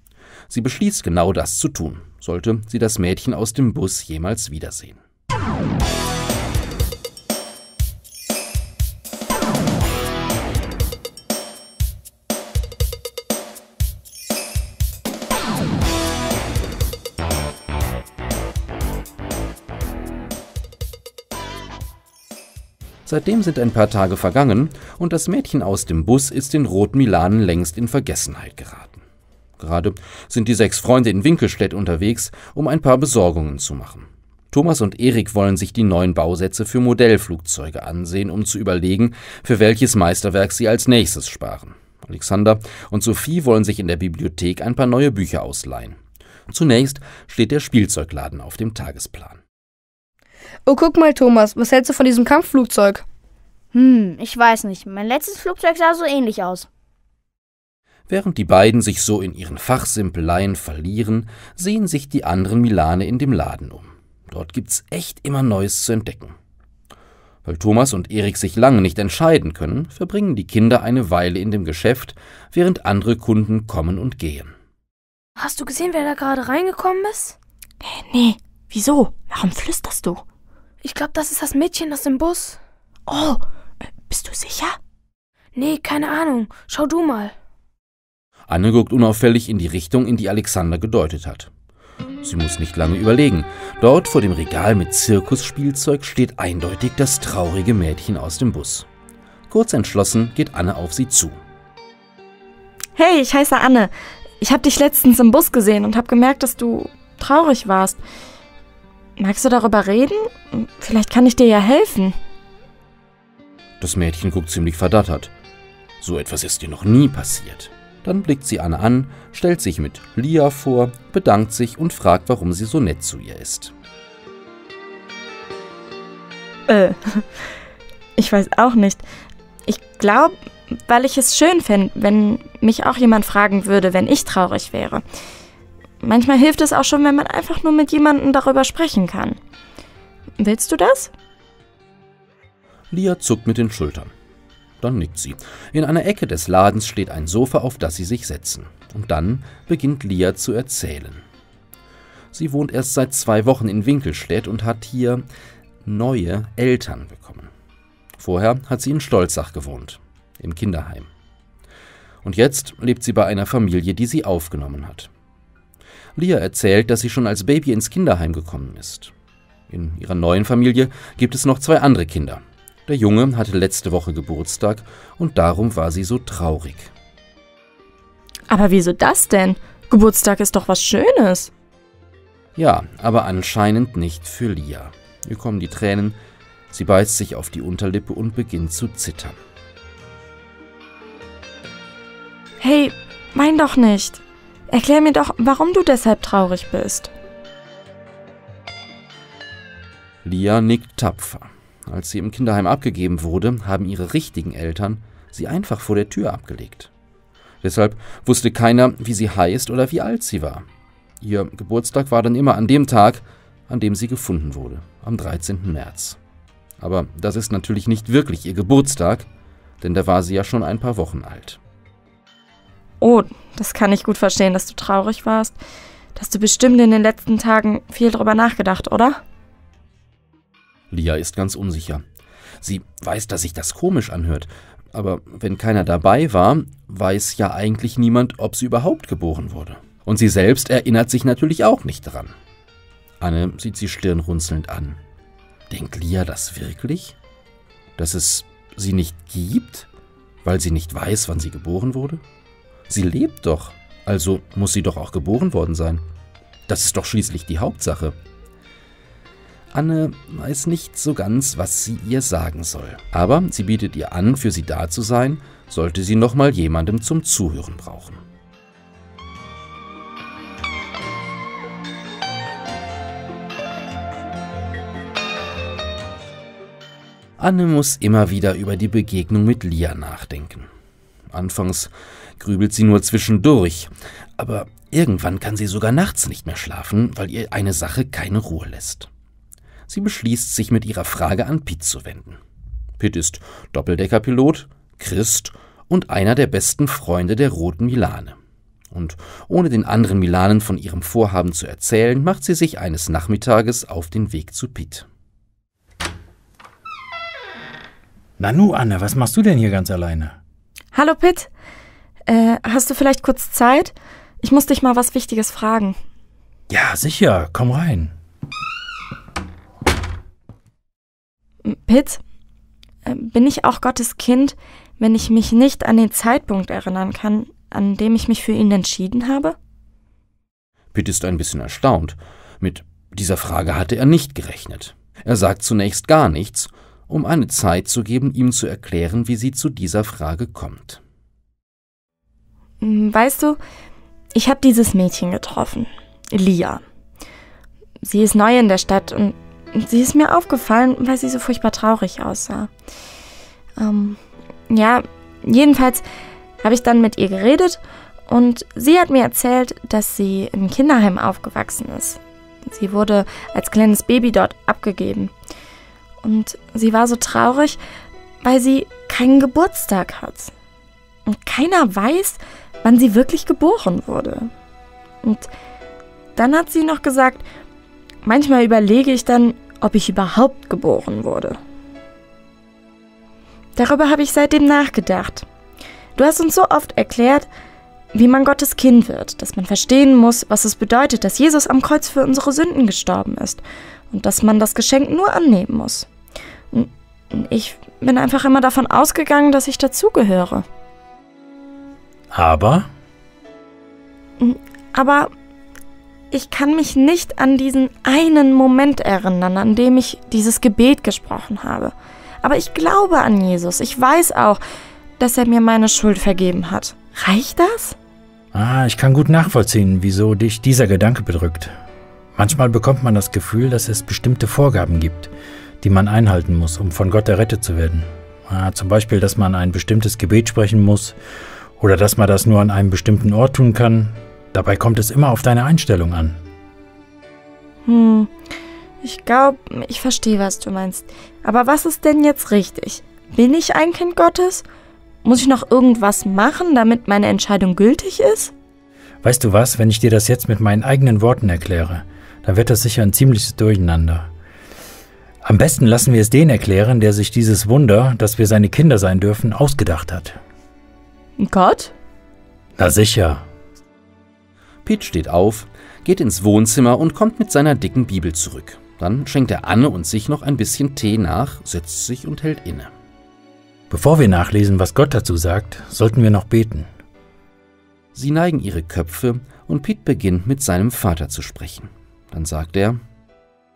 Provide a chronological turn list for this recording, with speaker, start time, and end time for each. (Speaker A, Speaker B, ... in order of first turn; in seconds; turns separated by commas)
Speaker A: 0.5-5.0, Speaker A: 23.1-29.0, Speaker A: 29.6-46.0, Speaker A: 46.5-49.4, Speaker B: 50.6-53.0, Speaker C: 53.7-56.7, Speaker A: 58.1-66.3, Speaker A: 67.4-74.5, Speaker D: 75.4-77.4, Speaker E: 77.8-80.2, Speaker D: 80.8-82.6, Speaker E: 83.1-83.4, Speaker E: 84.1-84.8, Speaker D: 85.6-87.3, Speaker A: 88.5-91.5, Speaker A: 92.2-98.9, Speaker A: 99.5-101.4, Speaker E: 103.0-108.0, Speaker E: 109.2-112.1, Speaker A: 113.8-115.3, Speaker A: 116.0-123.7, Speaker E: 126.7-127.3, Speaker E: 128.2-129.0, Speaker E: 129.7-135.0, Speaker E: 136.0-139.4, Speaker E: 140.4-141.1, Speaker A: 142.9-144.1, Speaker A: 144.8-151.2, Speaker A: 152.3-155.2, Speaker A: 155.8-157.5, Speaker A: 158.2-161.1, Speaker A: 162.2-165.1, Speaker A: 166.2-169.1, Speaker A: 169.7-176.9, Speaker E: 178.5-181.5, Speaker A: 182.6-186.2, Speaker A: 186.7-189.4, Speaker E: 192.6-197.1, Speaker A: 200.2-206.9, Speaker A: 207.6-210.6, Speaker A: 211.2-216.2, Speaker A: 216.8-219.3, Speaker A: 219.8-221.6, Speaker E: 223.0-225.6, Speaker E: 226.1-229.2, Speaker A: 230.9-232.0, Speaker A: 232.6-242.3, Speaker A: 243.2-245.0, Speaker A: 245.7-247.2, Speaker A: 248.0-249.9, Speaker A: 250.4-252.2, Speaker A: 252.9-256.0, Speaker A: 256.7-258.1, Speaker A: 259.7-268.2, Speaker A: 277.4-280.7, Speaker A: 281.3-289.1, Speaker A: 289.9-292.4, Speaker A: 293.0-298.4, Speaker A: 298.9-305.1, Speaker F: 308.4-310.4, Speaker E: 310.9-311.5, Speaker E: 312.3-316.0, Speaker F: 316.7-318.1, Speaker E: 321.6-322.2, Speaker E: 323.0-329.6, Speaker A: 330.9-341.0, Speaker E: 342.8-343.6, Speaker E: 344.3-346.8, Speaker E: 348.0-352.7, Speaker E: 353.8-356.0, Speaker E: 356.6-365.3, Speaker E: 366.2-367.8, Speaker E: 368.4-370.5, Speaker E: 371.2-374.5, Speaker E: 375.2-375.5, Speaker E: 376.4-377.5, Speaker E: 378.2-381.6, Speaker E: 383.8-385.5, Speaker E: 386.1-387.5, Speaker E: 388.1-396.1, Speaker E: 396.7-400.6, Speaker F: 402.3-402.9, Speaker E: 404.4-405.3, Speaker E: 406.3-414.6, Speaker E: 415.2-418.0, Speaker F: 418.5-421.7, Speaker F: 422.4-425.3, Speaker F: 425.8-431.2, Speaker F: 431.8-436.4, Speaker E: 437.9-438.3, Speaker E: 439.0-444.6, Speaker E: 445.2-448.5, Speaker F: 449.2-454.3, Speaker F: 455.4-460.4, Speaker E: 461.4-461.9, Speaker F: 462.8-463.4, Speaker A: 464.9-472.9, Speaker F: 473.9-476.9, Speaker A: 478.1-483.0